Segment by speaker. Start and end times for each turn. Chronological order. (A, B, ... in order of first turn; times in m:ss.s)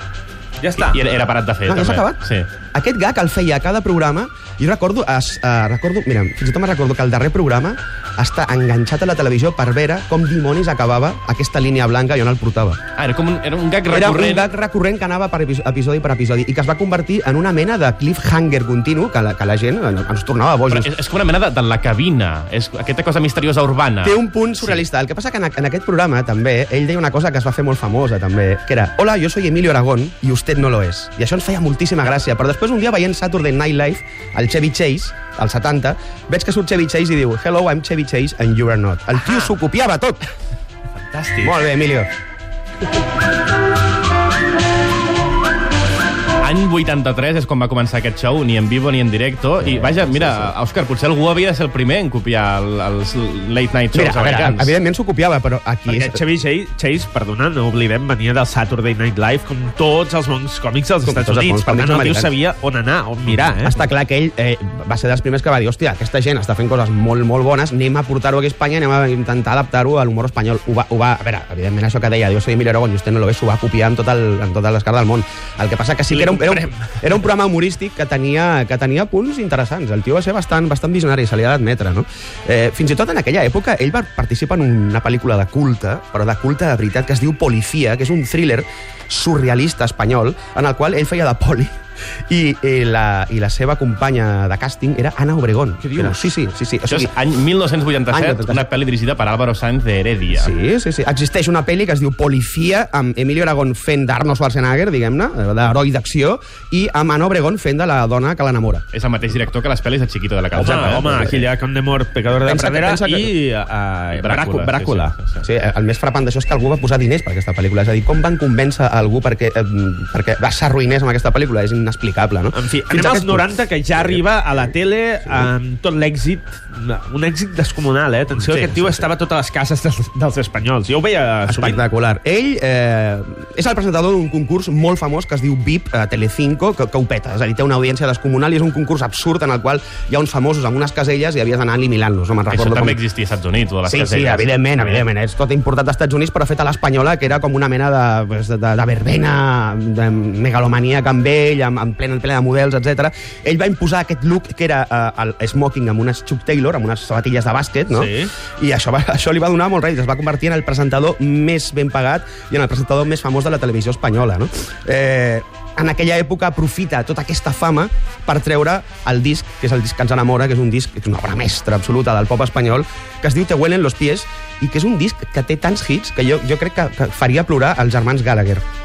0:00.6-0:01.0 A
0:00.9-0:02.5 B
0:01.6-0:02.2 C
0:02.7-0:12.8 C
0:13.0-0:14.5 B
0:13.9-0:20.9 C
0:20.7-0:24.8 B
0:24.0-0:40.2 C
0:41.1-0:41.5 A
0:41.4-0:42.1 C
0:46.4-0:54.7 B
0:49.7-0:50.5 C
0:53.9-0:56.2 C
0:55.9-1:03.8 A
1:01.0-1:02.3 C
1:03.6-1:31.7 C
1:16.1-1:17.0 A
1:32.3-1:37.1 C
1:36.9-1:40.5 B
1:38.1-1:38.6 C
1:40.3-1:48.8 C
1:48.9-1:51.3 B
1:50.5-1:51.4 C
1:50.6-1:55.1 A
1:52.4-1:53.3 C
1:54.1-1:55.4 B
1:55.4-2:04.2 C
2:02.5-2:11.8 A
2:05.2-2:05.5 C
2:08.4-2:09.1 C
2:11.5-2:23.0 C
2:22.5-2:25.0 B
2:23.9-2:58.6 C
2:37.9-2:38.3 A